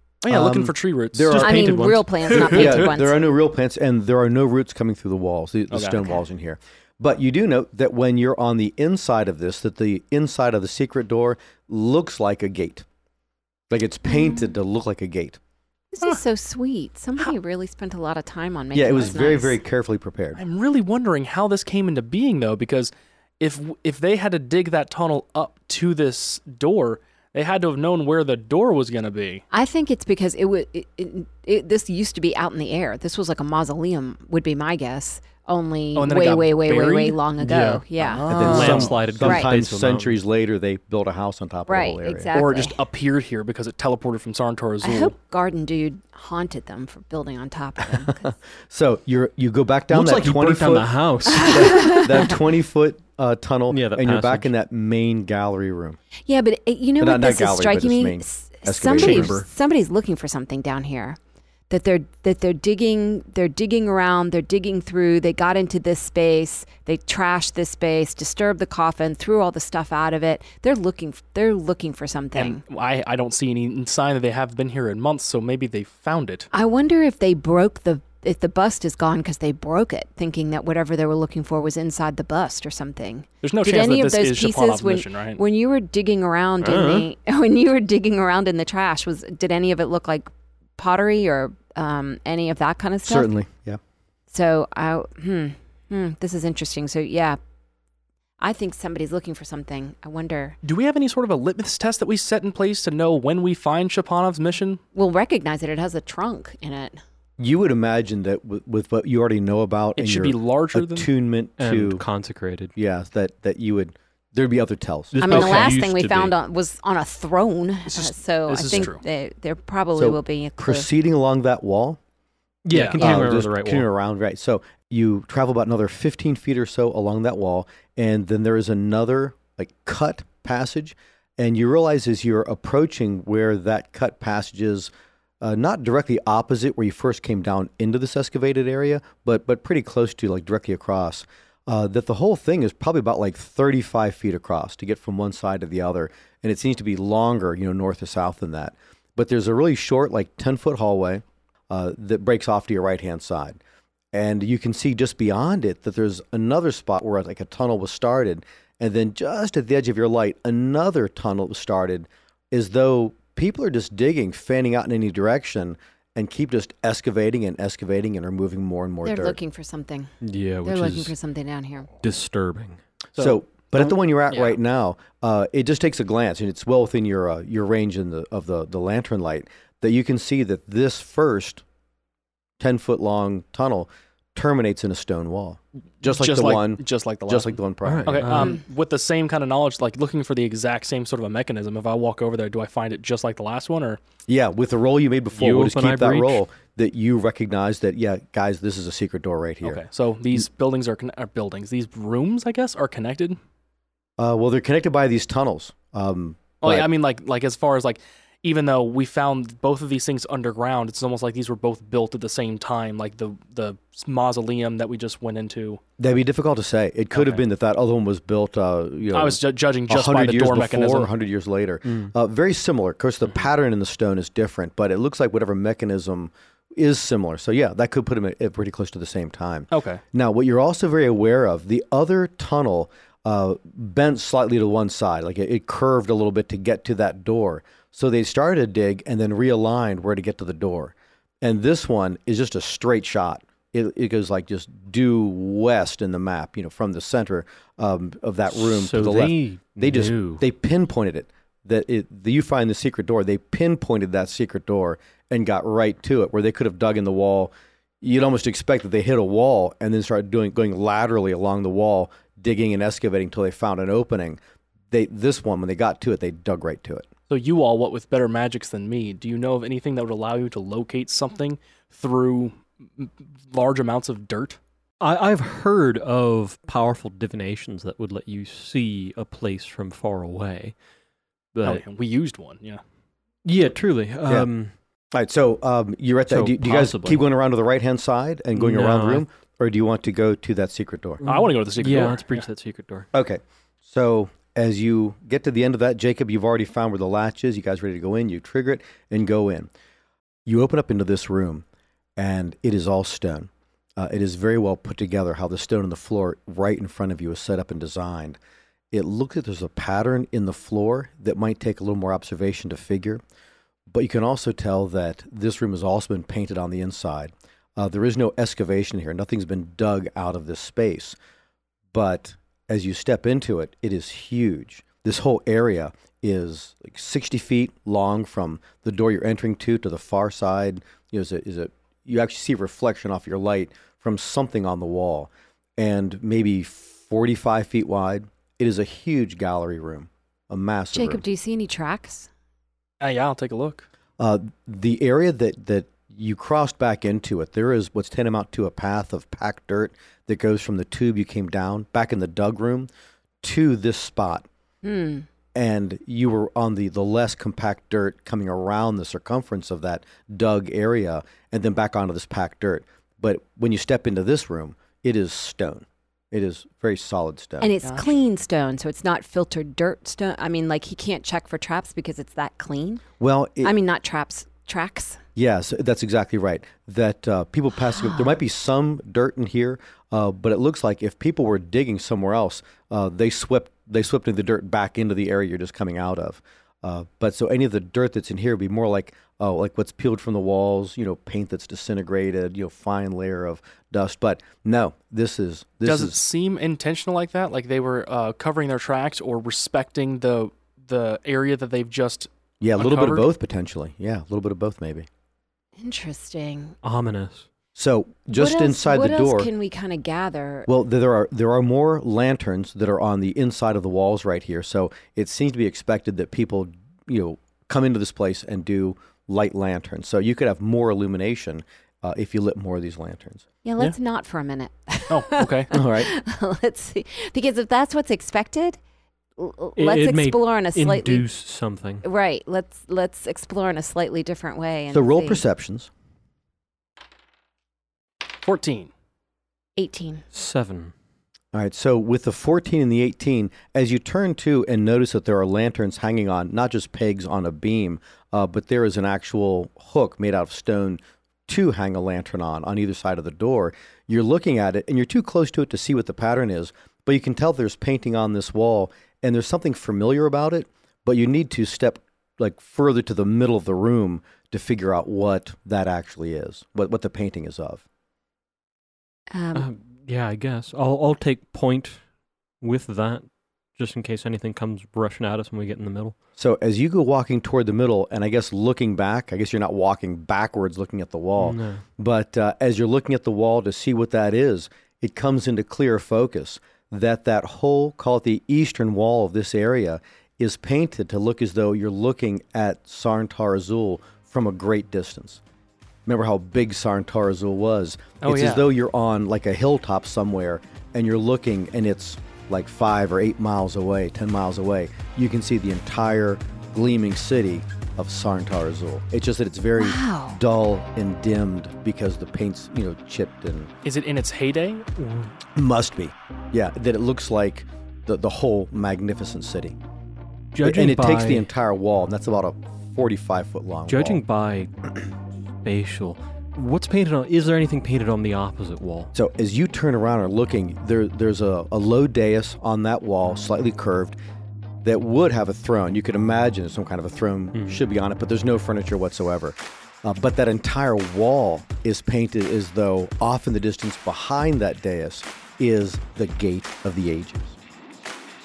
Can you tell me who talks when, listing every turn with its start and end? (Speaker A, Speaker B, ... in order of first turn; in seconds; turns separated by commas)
Speaker A: 0.2-2.8, Speaker B: 0.3-12.8, Speaker C: 1.4-3.2, Speaker A: 5.7-6.1, Speaker B: 13.7-15.4, Speaker C: 14.1-14.5, Speaker C: 15.9-19.6, Speaker B: 18.7-20.4, Speaker A: 20.4-29.4, Speaker C: 29.5-39.5, Speaker A: 35.9-37.2, Speaker D: 37.4-40.2, Speaker A: 38.0-38.9, Speaker B: 38.3-42.3, Speaker C: 41.7-42.8, Speaker A: 42.3-45.1, Speaker C: 44.8-48.3, Speaker B: 47.9-56.0, Speaker D: 49.9-51.9, Speaker C: 51.3-52.4, Speaker D: 53.7-54.5, Speaker C: 56.2-61.2, Speaker B: 57.0-59.4, Speaker D: 59.0-59.5, Speaker C: 61.7-72.6, Speaker A: 72.3-76.5, Speaker C: 76.5-93.3, Speaker A: 83.4-85.4, Speaker D: 86.6-87.1, Speaker B: 93.0-93.8, Speaker C: 94.3-97.4, Speaker C: 98.4-100.6, Speaker A: 100.6-104.8, Speaker C: 104.9-107.0, Speaker B: 107.4-112.0, Speaker A: 110.0-111.1, Speaker D: 111.6-112.7, Speaker B: 112.8-115.7, Speaker D: 115.1-116.3, Speaker C: 115.2-120.9, Speaker A: 117.9-119.0, Speaker B: 120.0-122.0, Speaker D: 122.6-123.9, Speaker A: 122.7-123.1, Speaker B: 123.0-153.6, Speaker B: 154.1-169.4, Speaker C: 169.0-170.1, Speaker D: 170.2-171.1, Speaker C: 170.6-171.9, Speaker D: 172.0-172.8, Speaker A: 173.1-173.4, Speaker B: 173.2-181.6, Speaker A: 174.3-174.6, Speaker B: 182.6-188.4, Speaker A: 186.0-194.0, Speaker D: 187.8-188.6, Speaker C: 188.3-188.6, Speaker B: 194.3-199.8, Speaker D: 195.4-196.4, Speaker A: 199.6-203.4, Speaker B: 204.2-206.9, Speaker A: 206.6-215.8, Speaker B: 216.0-264.4, Speaker A: 217.1-217.4, Speaker A: 219.1-221.1, Speaker A: 229.7-230.0, Speaker D: 248.5-250.4, Speaker B: 264.9-267.1, Speaker A: 267.3-274.6, Speaker D: 275.0-280.7, Speaker D: 281.5-281.8, Speaker A: 281.6-282.8, Speaker D: 283.4-284.7, Speaker B: 285.1-291.2, Speaker D: 286.3-287.2, Speaker D: 288.5-289.2, Speaker D: 291.2-293.1, Speaker A: 291.2-292.4, Speaker B: 293.1-299.7, Speaker B: 300.4-301.6, Speaker B: 302.2-308.4, Speaker B: 308.9-313.2, Speaker B: 313.9-321.1, Speaker B: 321.9-341.2, Speaker C: 340.9-342.3, Speaker A: 343.0-343.9, Speaker B: 344.2-352.9, Speaker B: 353.4-354.5, Speaker C: 354.8-355.2, Speaker B: 355.5-367.7, Speaker C: 367.6-373.0, Speaker A: 367.8-368.1, Speaker B: 373.2-373.7, Speaker C: 373.6-375.2, Speaker B: 375.3-396.2, Speaker C: 377.8-378.3, Speaker A: 395.8-403.2, Speaker B: 402.6-405.1, Speaker C: 405.8-406.7, Speaker D: 406.8-407.4, Speaker B: 407.7-409.5, Speaker C: 408.3-410.7, Speaker B: 410.7-423.4, Speaker C: 423.6-428.8, Speaker A: 425.1-425.7, Speaker B: 425.7-426.1, Speaker C: 429.4-431.2, Speaker D: 429.8-432.0, Speaker C: 432.0-435.4, Speaker B: 434.9-435.9, Speaker A: 438.4-438.9, Speaker C: 439.8-440.2, Speaker D: 440.3-440.9, Speaker B: 441.5-467.8, Speaker C: 469.3-469.7, Speaker D: 469.5-472.0, Speaker D: 472.6-476.1, Speaker B: 476.4-495.4, Speaker D: 481.4-481.8, Speaker B: 496.1-513.7, Speaker A: 498.2-498.6, Speaker C: 509.8-510.4, Speaker A: 513.8-514.9, Speaker D: 515.0-515.3, Speaker B: 515.5-519.8, Speaker D: 520.5-521.5, Speaker B: 520.6-524.2, Speaker D: 523.9-525.1, Speaker D: 525.6-529.1, Speaker B: 529.1-534.2, Speaker B: 534.8-547.6, Speaker D: 537.5-537.8